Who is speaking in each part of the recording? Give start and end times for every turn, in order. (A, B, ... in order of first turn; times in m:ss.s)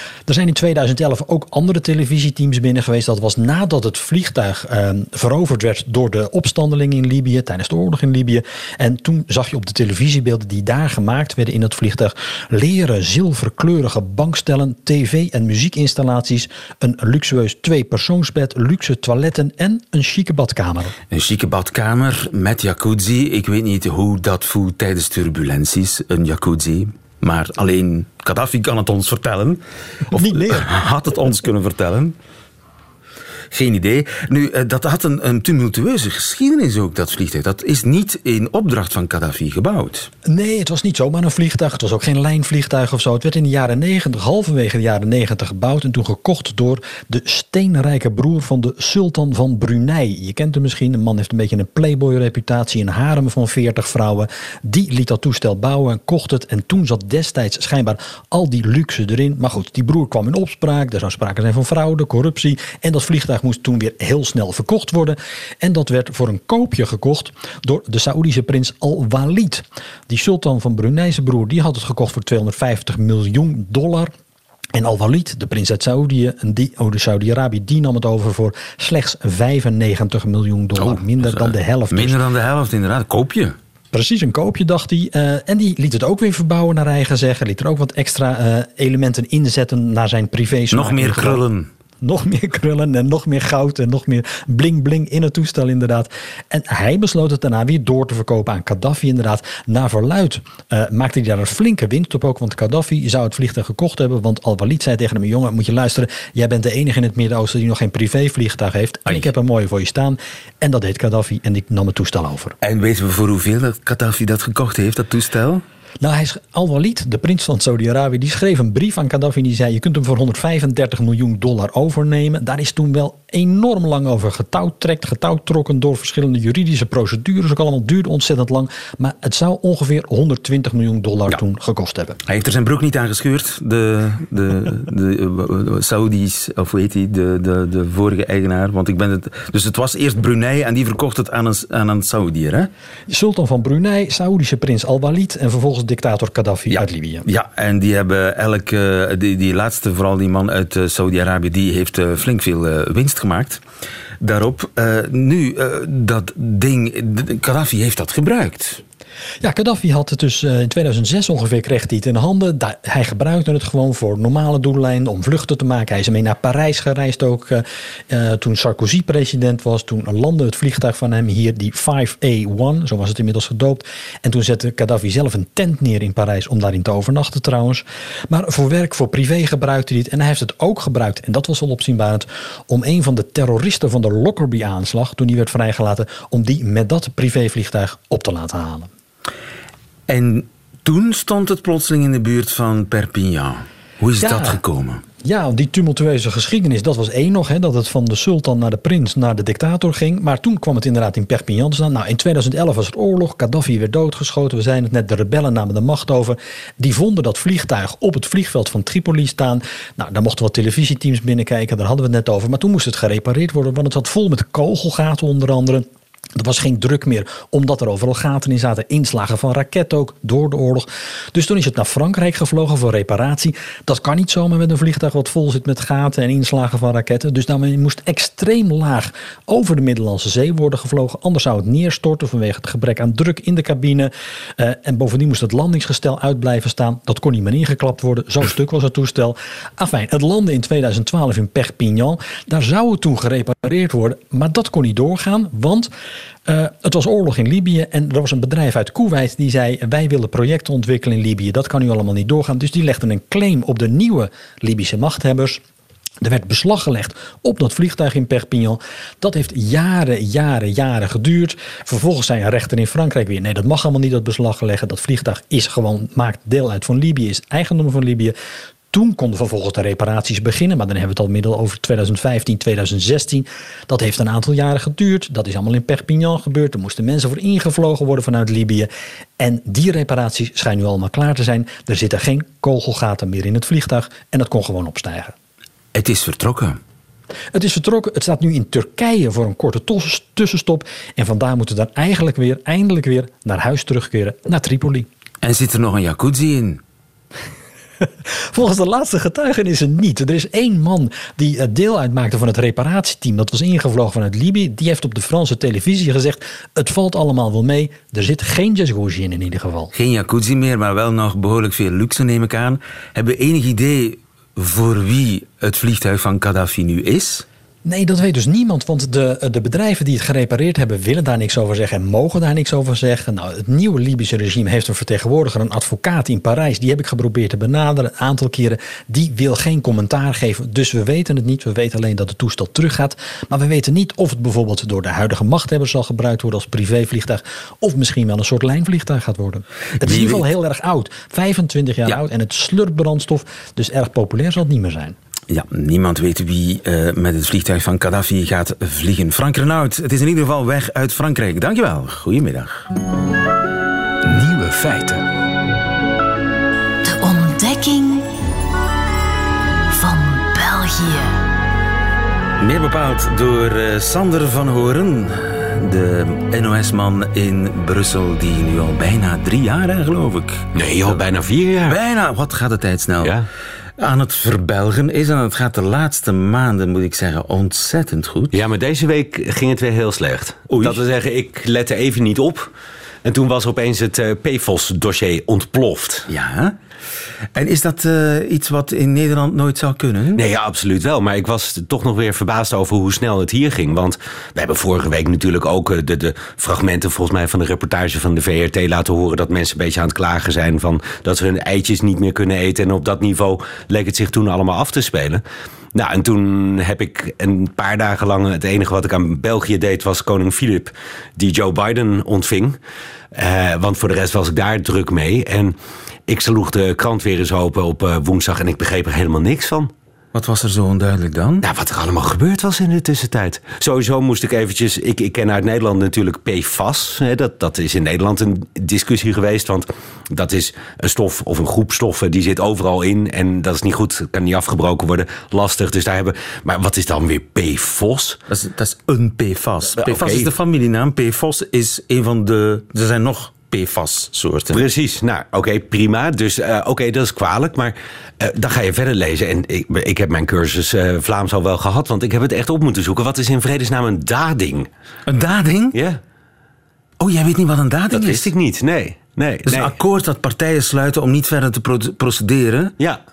0:00.2-0:20.9 A
0:21.1-0:32.2 B
0:30.1-0:30.7 A
0:33.5-0:40.1 B
0:40.3-1:14.1 A
1:14.7-1:22.2 A
1:20.8-1:23.6 B
1:23.9-1:31.4 A
1:30.7-1:31.7 B
1:32.0-1:52.6 A
1:52.6-1:55.6 B
1:56.0-2:12.2 A
2:12.2-2:22.7 B
2:23.1-2:27.2 A
2:26.7-2:33.6 B
2:34.2-2:38.8 B
2:39.4-3:08.9 A
3:10.1-3:15.0 B
3:14.2-3:14.6 A
3:15.2-4:05.9 A
4:06.4-4:15.6 A
4:16.2-4:28.3 A
4:28.9-4:45.3 A
4:45.9-4:46.8 B
4:47.5-4:55.1 A
4:55.4-4:56.8 B
4:58.5-5:09.9 A
5:09.9-5:17.4 B
5:17.8-5:45.2 A
5:40.0-5:40.5 B
5:45.5-5:52.9 B
5:54.2-5:55.3 B
5:57.0-5:58.3 C
5:59.9-6:01.4 C
6:02.6-6:11.2 B
6:10.7-6:12.0 D
6:11.8-6:13.3 B
6:13.2-6:13.5 D
6:14.0-6:18.6 B
6:18.5-6:22.7 D
6:20.7-6:21.0 B
6:23.2-6:26.3 D
6:26.3-6:26.8 B
6:27.5-6:30.4 B
6:30.3-6:45.4 D
6:45.9-6:52.8 D
6:53.3-6:55.7 D
6:56.3-6:59.9 D
7:00.3-7:01.6 B
7:01.6-7:18.4 D
7:18.5-7:24.8 B
7:20.0-7:20.5 D
7:24.7-7:34.9 D
7:35.3-7:36.0 B
7:35.9-7:36.2 D
7:37.2-7:38.5 B
7:38.1-7:40.0 D
7:39.6-7:42.9 B